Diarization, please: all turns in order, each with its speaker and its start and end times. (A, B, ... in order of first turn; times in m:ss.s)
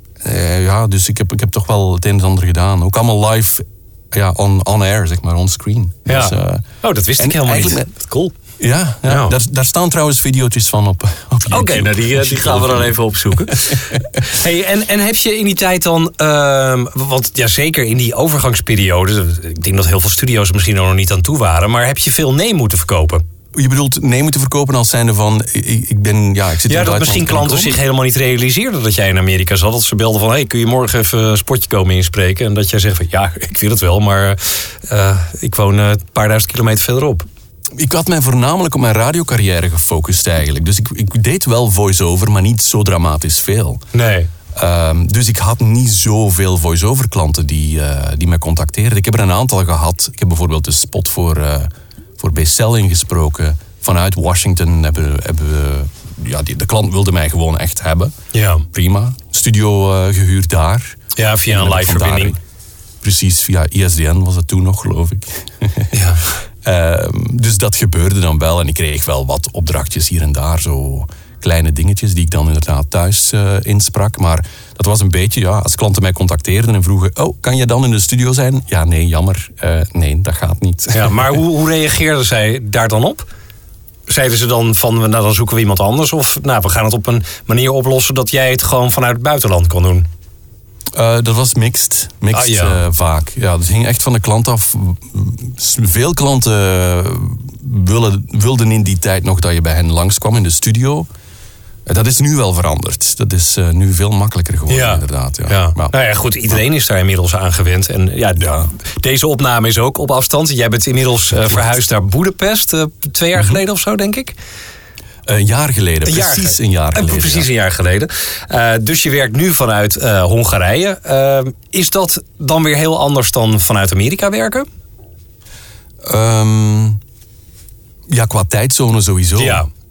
0:00.2-0:06.6 A
0:06.1-0:08.3 B
0:07.2-0:07.9 A
0:08.6-0:14.2 A
0:09.0-0:09.4 B
0:11.5-0:23.2 B
0:23.5-0:27.8 A
0:26.7-0:37.3 B
0:37.7-0:43.8 A
0:43.9-0:44.3 B
0:44.5-0:58.1 A
0:58.3-0:58.6 B
0:58.6-1:02.4 A
1:01.2-1:02.3 B
1:03.0-1:06.0 A
1:05.9-1:06.2 B
1:06.6-1:21.4 A
1:20.9-1:23.2 B
1:24.1-1:30.1 B
1:30.9-1:41.1 A
1:32.3-1:32.8 B
1:41.8-1:45.9 A
1:44.7-1:54.3 B
1:48.4-1:48.7 A
1:55.3-1:57.5 A
1:56.0-2:04.7 B
2:06.0-2:07.0 A
2:08.1-2:09.6 A
2:09.4-2:09.7 B